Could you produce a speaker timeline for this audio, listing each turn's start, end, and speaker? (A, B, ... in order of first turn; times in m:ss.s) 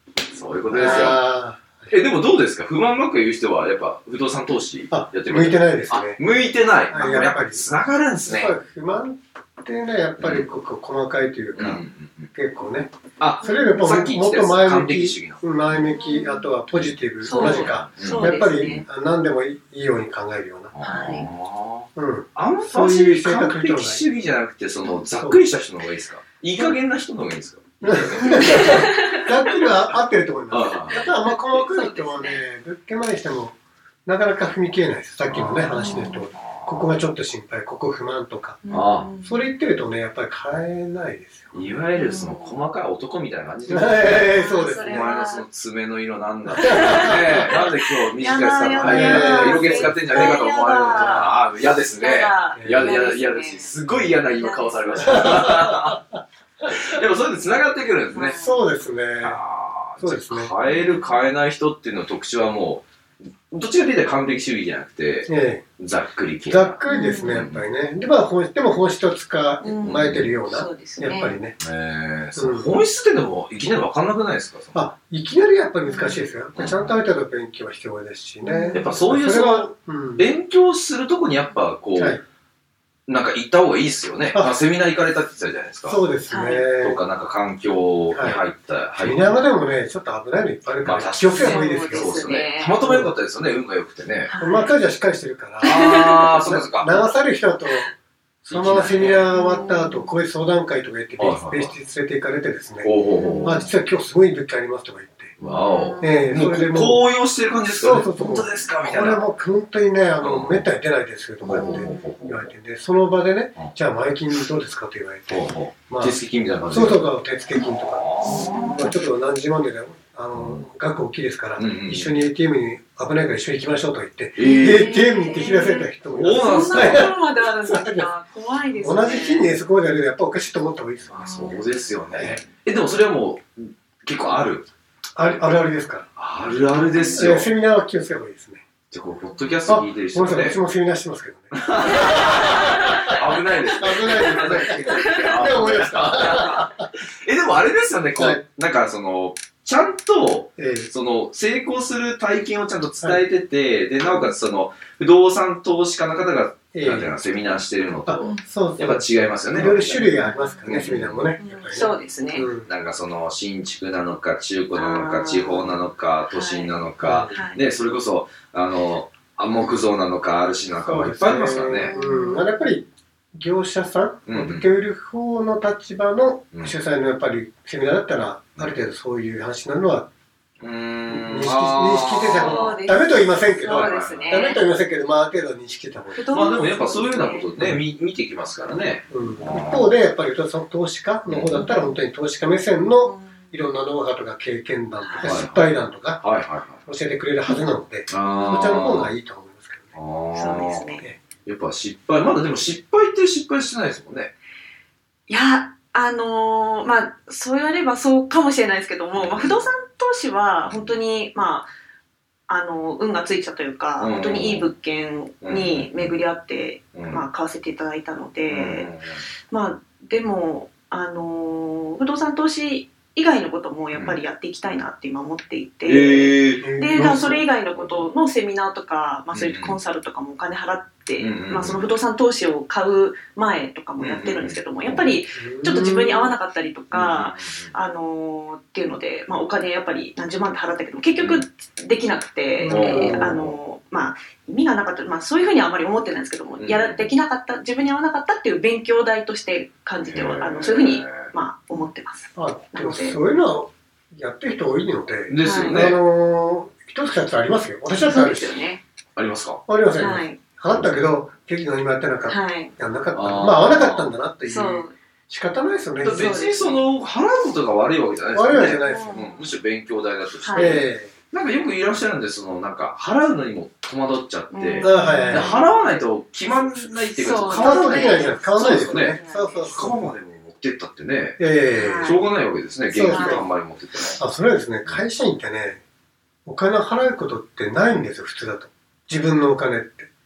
0:00.3-0:01.2 A
0:00.7-0:01.9 B
0:00.8-0:01.2 C
0:01.9-0:08.6 A
0:04.9-0:06.2 B
0:06.9-0:07.6 B
0:08.3-0:11.8 B
0:10.2-0:10.5 A
0:11.5-0:12.3 A
0:12.3-0:20.8 B
0:13.2-0:15.4 A
0:13.4-0:13.9 C
0:15.7-0:16.5 C
0:16.7-0:18.8 A
0:17.2-0:18.8 C
0:20.7-0:28.9 A
0:20.8-0:21.3 C
0:22.0-0:24.0 B
0:27.8-0:38.6 B
0:28.2-0:29.7 C
0:30.5-0:31.0 A
0:30.9-0:32.4 C
0:35.3-0:35.8 A
0:35.7-0:36.2 C
0:36.4-0:36.9 A
0:38.6-0:39.5 C
0:38.7-0:39.1 A
0:39.2-0:41.5 B
0:41.5-0:56.0 A
0:41.9-0:42.6 C
0:43.7-0:45.1 B
0:44.3-0:45.4 C
0:46.4-0:47.7 B
0:46.6-0:53.8 C
0:48.8-0:51.4 B
0:52.6-0:52.9 B
0:54.3-0:55.5 C
0:55.0-0:56.2 B
0:56.6-0:58.4 A
0:58.1-0:58.6 C
0:58.4-0:59.4 B
0:59.2-1:02.8 A
1:00.0-1:00.5 B
1:00.6-1:01.2 C
1:03.5-1:07.7 A
1:05.2-1:05.6 B
1:06.4-1:11.6 B
1:06.8-1:07.4 C
1:09.6-1:11.4 C
1:09.8-1:10.3 A
1:11.6-1:14.8 A
1:12.4-1:12.8 B
1:14.7-1:20.3 B
1:15.8-1:16.3 C
1:16.5-1:16.9 A
1:18.4-1:18.9 C
1:18.7-1:22.2 A
1:21.9-1:22.2 B
1:23.1-1:26.0 A
1:24.3-1:24.6 B
1:25.8-1:27.0 B
1:26.3-1:26.7 C
1:26.8-1:29.4 A
1:28.1-1:28.4 B
1:29.0-1:32.3 B
1:30.8-1:34.3 A
1:31.4-1:32.8 C
1:32.8-1:33.1 B
1:34.2-1:34.7 C
1:34.4-1:35.8 B
1:35.6-1:36.3 C
1:35.6-1:37.0 A
1:36.4-1:37.9 B
1:38.4-1:42.9 B
1:38.5-1:39.3 A
1:39.3-1:40.2 C
1:41.2-1:41.7 A
1:42.8-1:43.6 A
1:43.2-1:43.8 C
1:43.4-1:45.4 B
1:45.4-1:49.3 A
1:45.4-1:46.3 C
1:46.0-1:47.0 B
1:47.7-1:56.2 B
1:50.2-1:50.6 A
1:51.4-1:52.5 A
1:51.6-1:52.1 C
1:55.3-1:58.9 A
1:56.7-2:08.1 B
1:58.2-1:58.9 C
2:00.3-2:00.6 A
2:01.6-2:02.1 A
2:04.4-2:04.9 A
2:04.4-2:09.5 C
2:06.1-2:07.1 A
2:08.8-2:11.5 B
2:11.1-2:14.7 A
2:11.2-2:11.6 C
2:12.1-2:12.4 B
2:15.2-2:16.1 B
2:16.2-2:17.5 A
2:17.1-2:18.6 B
2:18.9-2:20.6 A
2:19.6-2:23.1 B
2:21.5-2:41.3 A
2:23.7-2:26.9 B
2:24.9-2:25.2 C
2:28.2-2:28.4 B
2:30.6-2:30.9 B
2:36.7-2:37.1 B
2:38.1-2:42.7 B
2:38.2-2:38.4 C
2:40.2-2:40.8 C
2:41.4-2:42.5 C
2:42.6-2:52.0 A
2:44.7-2:46.7 C
2:47.0-2:47.4 B
2:47.3-2:47.6 C
2:50.8-3:00.1 B
2:51.9-2:52.5 C
2:54.3-2:54.7 A
3:00.6-3:02.8 A
3:01.1-3:06.6 B
3:02.3-3:04.6 C
3:03.7-3:04.6 A
3:06.1-3:07.5 C
3:06.3-3:09.9 A
3:08.7-3:16.2 B
3:11.2-3:11.7 A
3:13.0-3:13.5 C
3:15.0-3:15.3 C
3:15.2-3:16.8 A
3:16.8-3:20.0 B
3:18.1-3:19.1 A
3:19.9-3:20.9 A
3:20.3-3:21.1 C
3:21.4-3:24.3 A
3:25.3-3:31.7 C
3:29.1-3:29.7 A
3:30.7-3:30.9 A
3:32.5-3:38.9 C
3:34.0-3:34.7 A
3:35.4-3:36.2 A
3:36.9-3:37.2 A
3:38.5-3:39.2 A
3:39.5-4:13.2 C
3:43.9-3:44.2 A
3:45.8-3:48.1 A
3:46.6-3:47.3 B
3:49.3-3:49.8 A
3:51.2-3:51.9 A
3:54.0-3:55.2 A
3:55.3-3:56.3 B
3:56.9-3:57.7 A
4:01.2-4:01.4 A
4:02.6-4:03.3 B
4:02.7-4:03.6 A
4:06.6-4:07.1 A
4:10.0-4:11.3 A
4:12.4-4:18.6 B
4:15.3-4:16.0 A
4:15.4-4:15.8 C
4:18.0-4:18.8 C
4:19.2-4:19.6 A
4:19.7-4:26.4 B
4:19.9-4:20.4 C
4:20.7-4:21.1 A
4:22.3-4:22.7 C
4:23.1-4:24.1 A
4:24.4-4:25.0 C
4:26.0-4:41.4 A
4:26.1-4:26.8 C
4:28.3-4:29.2 B
4:28.8-4:29.5 C
4:30.4-4:30.8 C
4:30.5-4:31.1 B
4:34.5-4:35.8 C
4:34.8-4:35.6 B
4:37.2-4:39.9 C
4:37.5-4:40.1 B
4:41.4-4:42.2 B
4:41.7-4:42.2 C
4:42.0-4:44.2 A
4:42.9-4:43.4 B
4:43.1-4:43.5 C
4:44.2-4:45.8 B
4:46.4-4:50.1 B